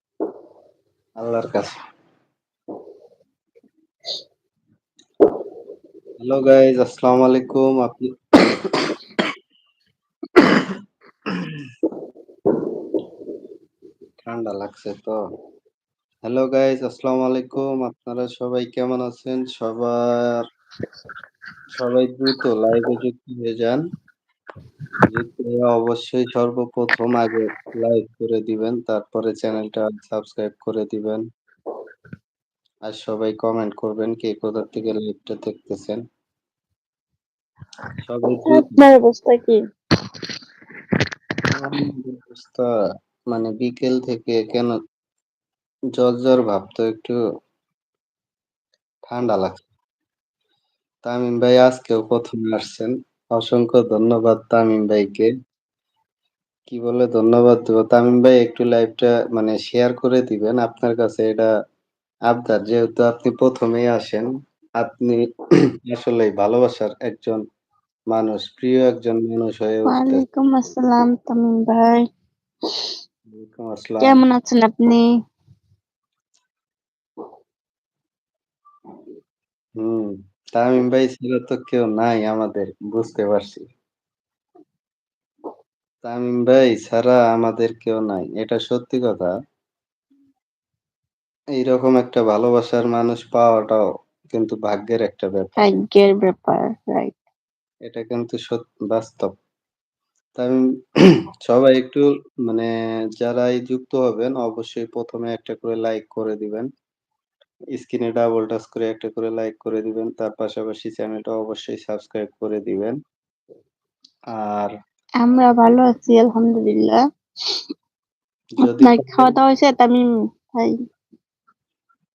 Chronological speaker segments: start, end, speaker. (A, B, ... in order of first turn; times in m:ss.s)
0:01.2-0:01.8 A
0:06.2-0:08.9 A
0:14.2-0:15.2 A
0:16.2-0:20.3 A
0:21.7-0:23.8 A
0:25.1-0:31.2 A
0:32.9-0:36.0 A
0:38.0-0:38.8 A
0:38.4-0:39.6 B
0:41.5-0:42.6 A
0:43.3-0:44.7 A
0:46.0-0:47.2 A
0:49.0-0:49.6 A
0:51.0-0:55.3 A
0:56.7-1:01.5 A
1:02.3-1:04.3 A
1:04.8-1:05.2 A
1:05.9-1:07.4 A
1:08.1-1:10.2 A
1:09.8-1:12.0 B
1:13.3-1:14.2 A
1:14.0-1:15.0 B
1:19.8-1:23.6 A
1:26.0-1:29.3 A
1:31.6-1:35.6 A
1:35.6-1:37.1 B
1:37.8-1:39.3 A
1:41.4-1:46.7 A
1:47.7-1:53.0 A
1:54.4-1:54.7 A
1:55.2-1:57.0 B
1:58.6-1:59.3 A
1:58.6-2:00.7 B